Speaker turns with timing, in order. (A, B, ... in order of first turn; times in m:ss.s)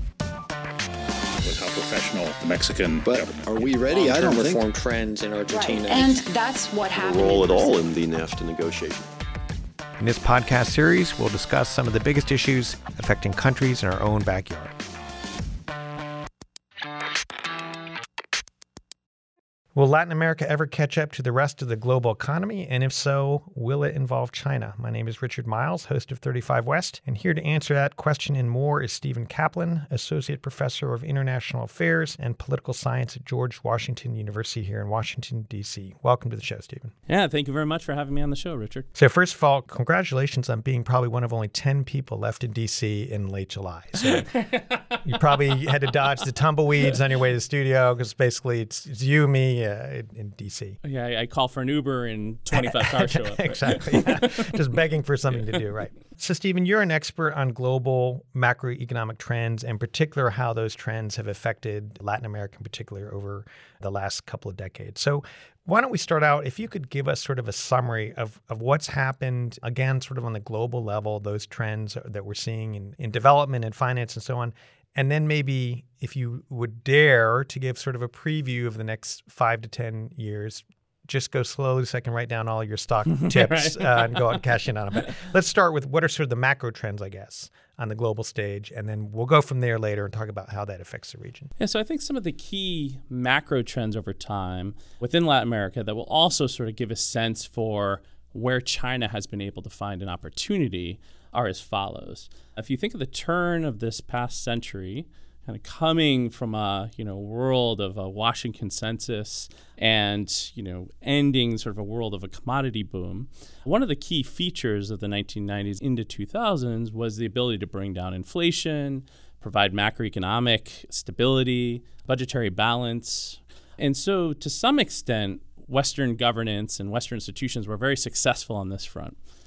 0:01.4-0:04.5 A
0:03.1-0:04.6 B
0:03.9-0:06.2 C
0:05.5-0:07.8 D
0:06.9-0:09.1 B
0:10.0-0:14.7 C
0:19.8-0:36.9 C
0:37.1-0:38.9 E
0:39.0-0:44.3 C
0:44.0-0:45.0 E
0:45.0-0:50.8 C
0:50.8-0:54.6 E
0:52.5-1:31.5 C
1:23.1-1:24.4 E
1:31.6-2:09.2 E